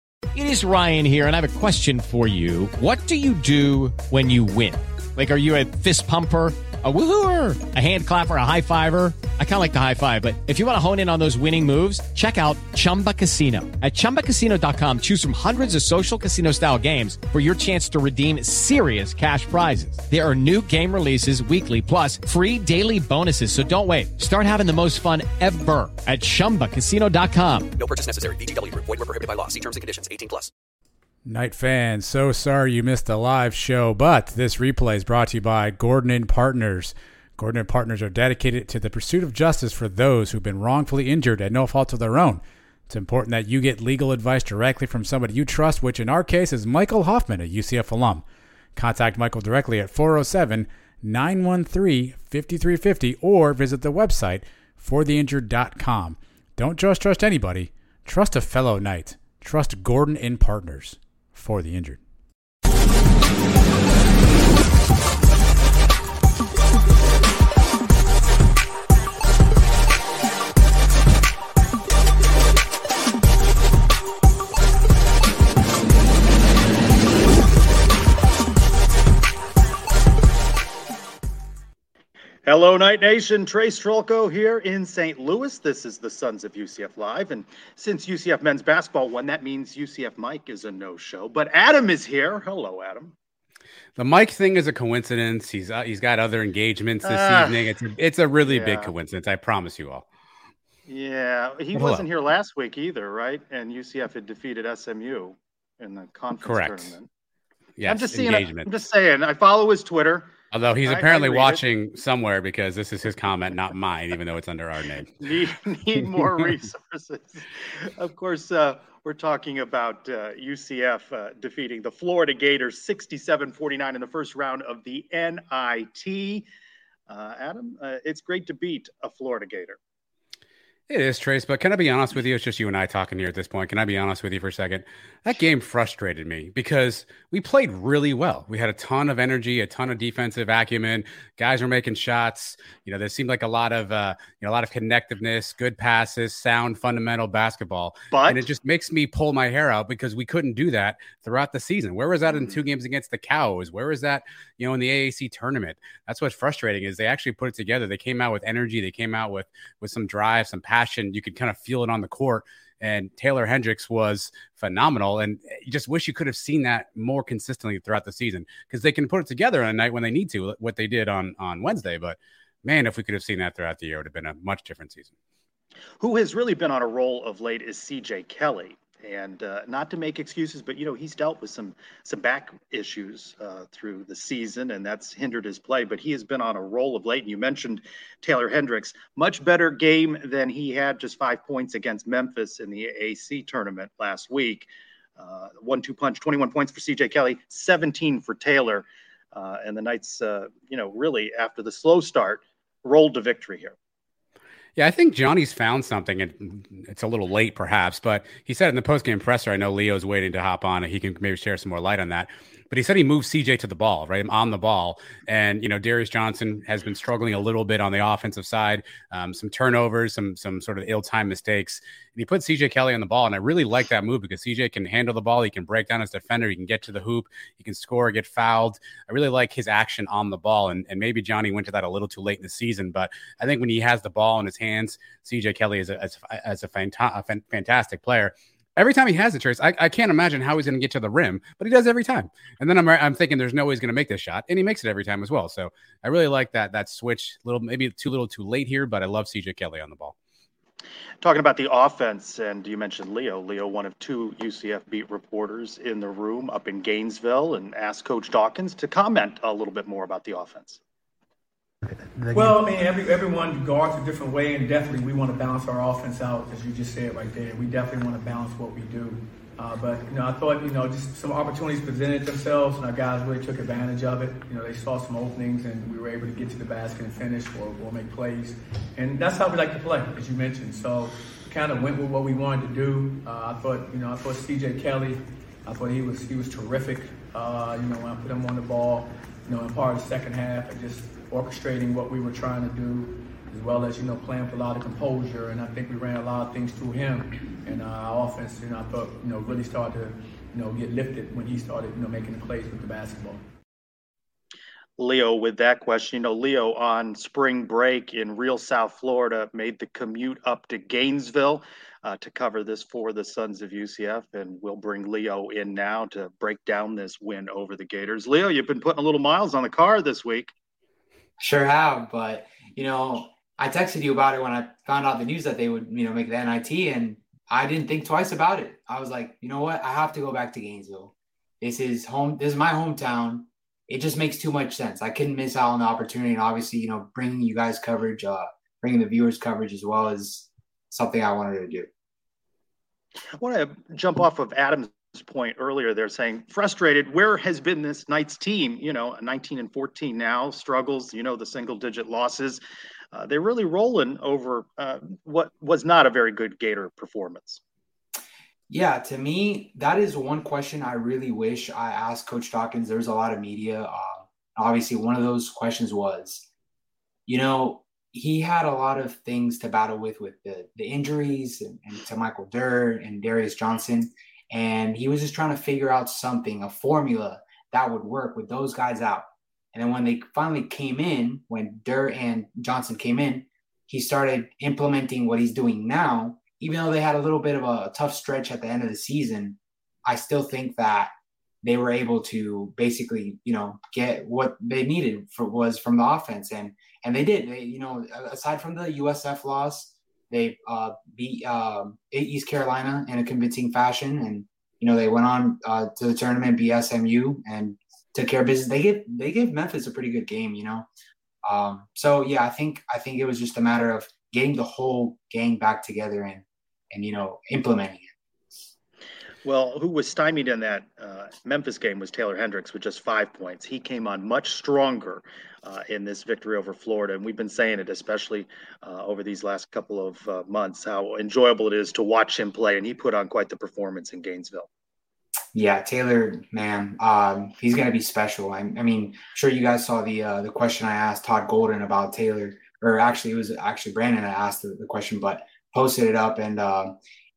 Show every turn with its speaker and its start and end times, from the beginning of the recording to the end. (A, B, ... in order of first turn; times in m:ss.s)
0:00.3-0:27.7 A
0:27.8-0:30.5 B
0:31.2-0:48.2 C
0:48.8-1:02.0 C
1:22.4-1:33.1 D
1:34.0-1:40.0 E
1:37.0-1:37.6 D
1:38.4-1:38.9 D
1:40.9-1:47.1 D
1:41.7-1:42.0 E
1:46.4-1:46.9 E
1:47.8-1:48.7 E
1:47.8-1:51.6 D
1:50.5-1:55.2 E
1:55.2-2:06.4 D
2:07.1-2:09.8 D
2:10.9-2:55.1 E
2:28.1-2:28.4 D
2:32.3-2:32.6 D
2:56.0-3:23.7 D
3:24.8-4:10.1 E
4:11.2-4:20.8 D
4:22.3-5:03.4 F
5:05.0-5:20.5 D
5:21.4-5:41.9 G
5:43.4-5:52.6 D
5:53.1-5:57.6 D
5:58.7-6:06.4 G
6:07.3-6:50.9 G
6:51.4-6:58.1 G
6:59.4-7:14.7 D
7:15.5-7:27.0 G